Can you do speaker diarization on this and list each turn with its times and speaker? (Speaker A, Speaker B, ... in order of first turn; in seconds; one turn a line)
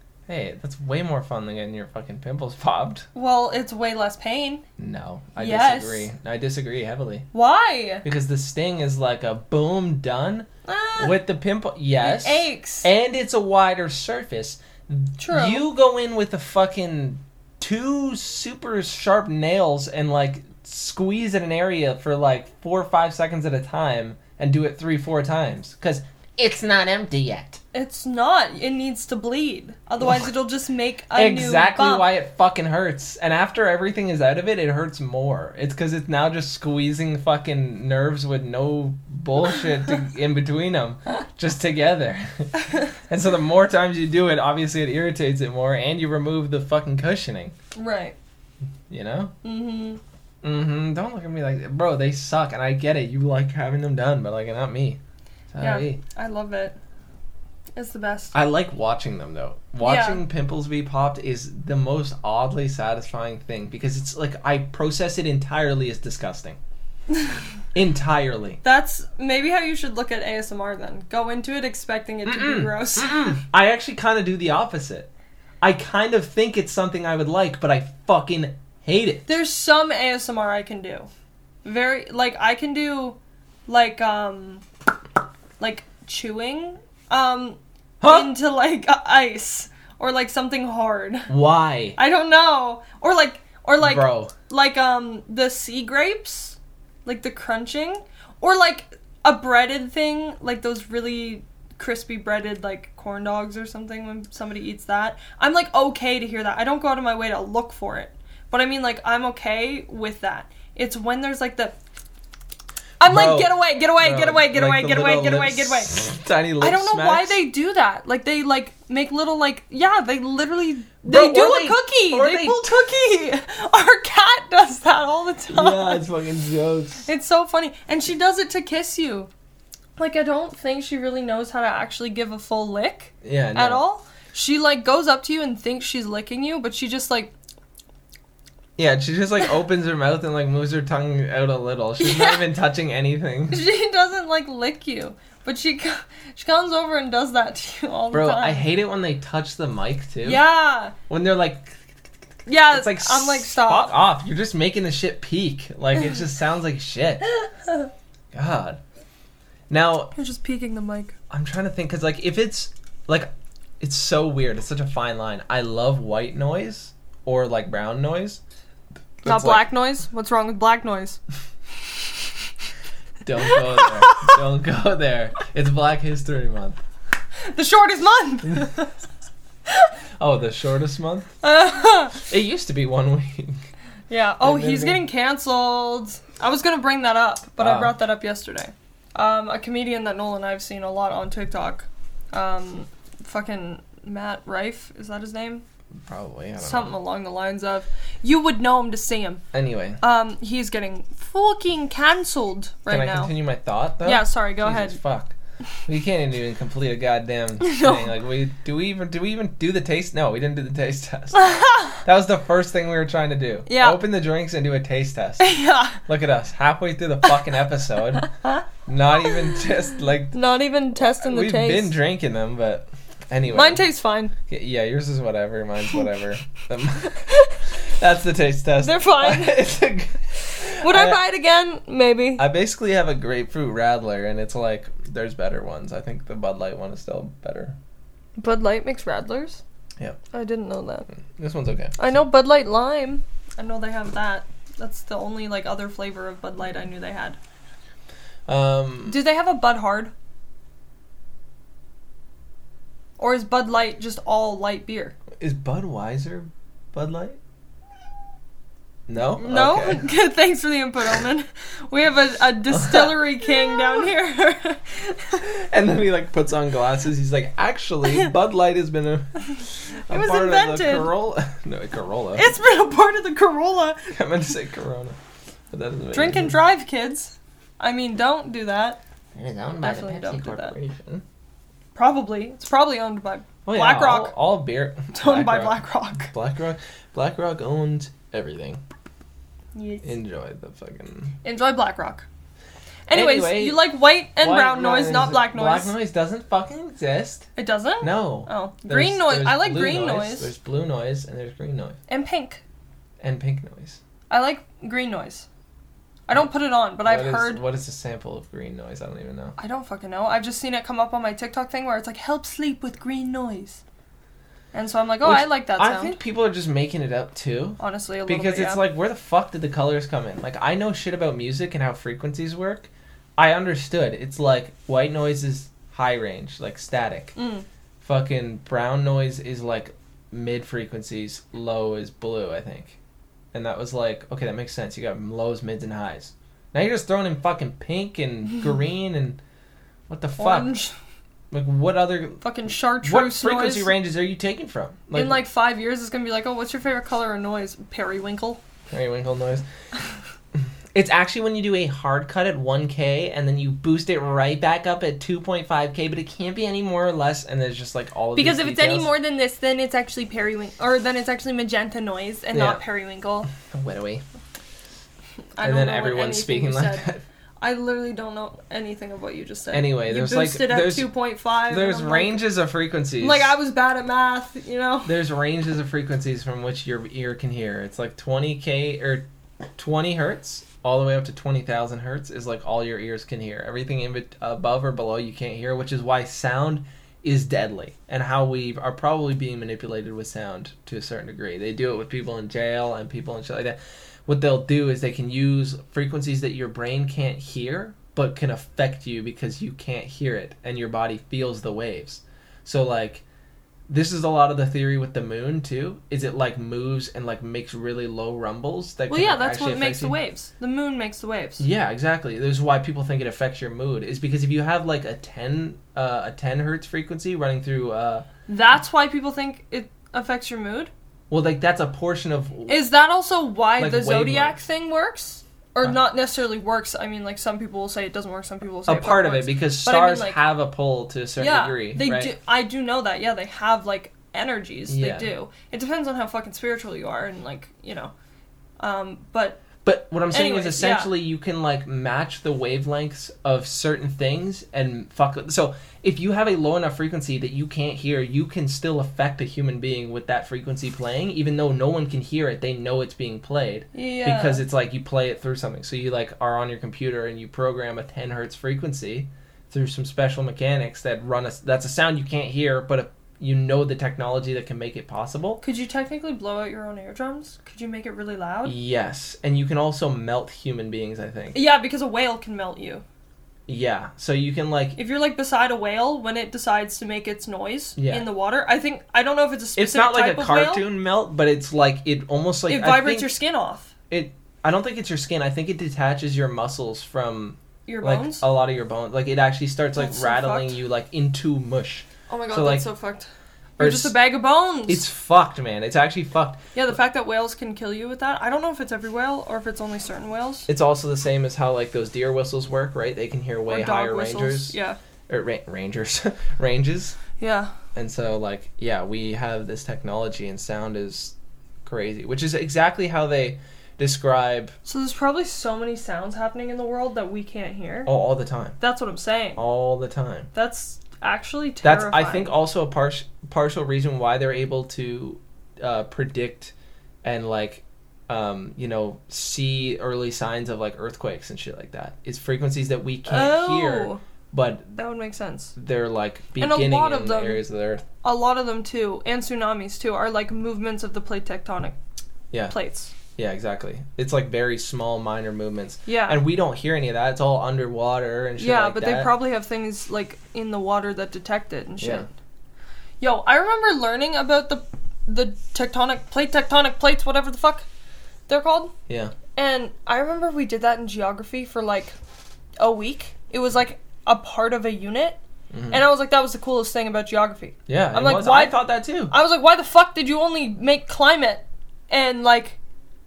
Speaker A: 0.3-3.0
Speaker B: 3.1-4.6
Speaker A: 4.8-7.3
Speaker B: 5.4-6.1
Speaker B: 7.3-8.0
Speaker A: 8.0-10.5
Speaker B: 10.7-11.2
Speaker A: 11.0-27.6
Speaker B: 12.0-12.9
Speaker B: 15.2-15.6
Speaker B: 27.7-32.1
Speaker A: 31.1-42.5
Speaker A: 43.1-47.5
Speaker B: 47.8-48.1
Speaker A: 48.9-49.3
Speaker B: 49.4-50.0
Speaker A: 50.4-55.0
Speaker A: 55.5-56.0
Speaker B: 55.6-56.8
Speaker B: 57.8-58.3
Speaker A: 58.3-66.6
Speaker B: 59.8-60.2
Speaker B: 67.1-67.4
Speaker A: 67.7-68.6
Speaker B: 68.6-73.4
Speaker A: 72.2-75.1
Speaker A: 75.6-79.3
Speaker B: 79.3-81.1
Speaker B: 81.6-84.6
Speaker B: 85.6-91.3
Speaker A: 88.0-88.3
Speaker A: 91.3-92.0
Speaker B: 92.0-111.8
Speaker A: 93.8-94.3
Speaker B: 113.0-116.0
Speaker A: 113.0-117.4
Speaker B: 116.6-126.0
Speaker A: 121.0-122.7
Speaker A: 125.5-127.1
Speaker B: 127.0-129.3
Speaker B: 130.0-137.3
Speaker A: 133.2-133.8
Speaker A: 138.8-143.6
Speaker B: 142.0-142.4
Speaker B: 143.5-148.7
Speaker A: 148.1-150.4
Speaker B: 150.2-150.9
Speaker A: 151.1-151.8
Speaker B: 152.4-153.9
Speaker A: 152.7-157.3
Speaker A: 158.3-158.8
Speaker A: 159.7-160.1
Speaker B: 160.1-161.2
Speaker A: 161.3-168.4
Speaker A: 169.2-169.7
Speaker B: 169.2-171.2
Speaker A: 173.2-176.8
Speaker B: 173.4-174.4
Speaker B: 177.5-178.9
Speaker A: 180.2-181.3
Speaker B: 181.4-182.2
Speaker A: 182.2-183.6
Speaker B: 184.1-195.6
Speaker A: 184.4-185.0
Speaker A: 187.6-187.9
Speaker A: 196.1-196.9
Speaker B: 196.6-199.4
Speaker A: 199.5-200.0
Speaker B: 200.0-203.3
Speaker A: 202.9-218.3
Speaker B: 204.0-205.0
Speaker B: 207.6-208.1
Speaker B: 211.3-212.0
Speaker B: 213.7-214.0
Speaker B: 215.4-216.0
Speaker B: 218.4-218.6
Speaker A: 218.8-220.3
Speaker B: 220.3-222.0
Speaker A: 221.2-223.8
Speaker B: 223.5-224.3
Speaker A: 224.5-227.2
Speaker B: 227.1-227.6
Speaker A: 227.8-231.2
Speaker B: 228.8-229.6
Speaker B: 230.7-232.4
Speaker A: 232.4-237.8
Speaker B: 238.4-239.6
Speaker B: 240.3-241.1
Speaker A: 241.3-241.9
Speaker B: 242.0-247.4
Speaker A: 248.5-249.2
Speaker B: 249.1-250.1
Speaker B: 253.2-255.2
Speaker A: 255.4-257.4
Speaker A: 259.1-260.1
Speaker B: 259.4-265.5
Speaker A: 262.7-263.2
Speaker A: 265.4-269.5
Speaker A: 270.1-272.5
Speaker B: 270.1-271.1
Speaker B: 272.4-274.1
Speaker A: 274.1-275.2
Speaker A: 275.7-276.6
Speaker B: 276.1-279.0
Speaker A: 279.3-281.2
Speaker B: 279.8-280.7
Speaker B: 281.9-284.3
Speaker A: 283.6-288.8
Speaker B: 285.1-286.3
Speaker B: 289.7-290.1
Speaker A: 290.0-291.3
Speaker B: 291.4-292.3
Speaker B: 293.1-295.9
Speaker A: 293.1-297.5
Speaker B: 297.6-300.5
Speaker A: 298.0-302.0
Speaker B: 302.1-302.6
Speaker A: 303.2-304.0
Speaker B: 304.3-305.5
Speaker B: 306.3-307.6
Speaker A: 307.0-309.6
Speaker B: 309.6-313.8
Speaker B: 314.7-316.2
Speaker A: 315.2-327.3
Speaker B: 317.8-318.8
Speaker B: 327.4-327.6
Speaker A: 328.0-333.0
Speaker A: 333.5-339.4
Speaker A: 340.1-340.7
Speaker B: 340.4-340.9
Speaker A: 341.5-342.4
Speaker B: 342.4-343.9
Speaker A: 343.0-345.4
Speaker B: 345.1-348.6
Speaker A: 348.9-349.6
Speaker A: 350.9-359.1
Speaker B: 358.4-363.5
Speaker A: 362.5-362.8
Speaker A: 363.5-364.2
Speaker B: 365.6-367.1
Speaker A: 365.6-367.2
Speaker B: 367.6-372.4
Speaker A: 369.7-371.1
Speaker A: 371.7-373.5
Speaker B: 373.2-375.1
Speaker A: 375.1-379.2
Speaker A: 379.8-403.2
Speaker A: 403.9-410.2
Speaker B: 409.1-411.6
Speaker A: 411.6-418.3
Speaker B: 418.5-420.9
Speaker A: 421.3-422.8
Speaker B: 422.7-430.4
Speaker A: 423.8-424.6
Speaker A: 428.9-432.3
Speaker B: 431.4-438.1
Speaker A: 434.9-435.3
Speaker B: 438.8-439.6
Speaker A: 439.8-465.6
Speaker B: 440.3-441.1
Speaker B: 453.9-454.6
Speaker B: 465.6-468.7
Speaker A: 468.6-471.6
Speaker B: 471.5-473.0
Speaker A: 473.7-475.0
Speaker B: 474.9-480.8
Speaker A: 478.0-478.3
Speaker A: 479.8-483.3
Speaker B: 482.7-483.9
Speaker A: 484.1-492.9
Speaker B: 487.9-488.4
Speaker B: 490.0-490.8
Speaker B: 492.3-495.0
Speaker A: 493.8-494.1
Speaker A: 494.9-496.7
Speaker B: 496.7-500.7
Speaker A: 500.7-504.8
Speaker B: 503.7-505.0
Speaker A: 505.3-507.2
Speaker B: 507.4-507.7
Speaker A: 507.9-511.3
Speaker A: 511.8-514.7
Speaker B: 514.8-518.1
Speaker A: 518.0-518.8
Speaker B: 518.8-519.6
Speaker A: 519.5-520.5
Speaker B: 520.5-522.5
Speaker A: 521.8-526.7
Speaker A: 527.2-534.9
Speaker B: 533.2-534.2
Speaker B: 534.9-535.8
Speaker A: 535.8-538.0
Speaker B: 536.6-537.6
Speaker B: 538.2-542.0
Speaker B: 542.7-543.1
Speaker A: 543.4-549.3
Speaker B: 546.0-546.4
Speaker B: 548.6-552.3
Speaker A: 552.0-552.2
Speaker B: 553.2-557.9
Speaker B: 558.5-558.9
Speaker A: 559.1-559.3
Speaker B: 559.5-562.1
Speaker B: 562.8-568.8
Speaker A: 565.7-566.0
Speaker A: 567.9-569.3
Speaker B: 569.3-572.8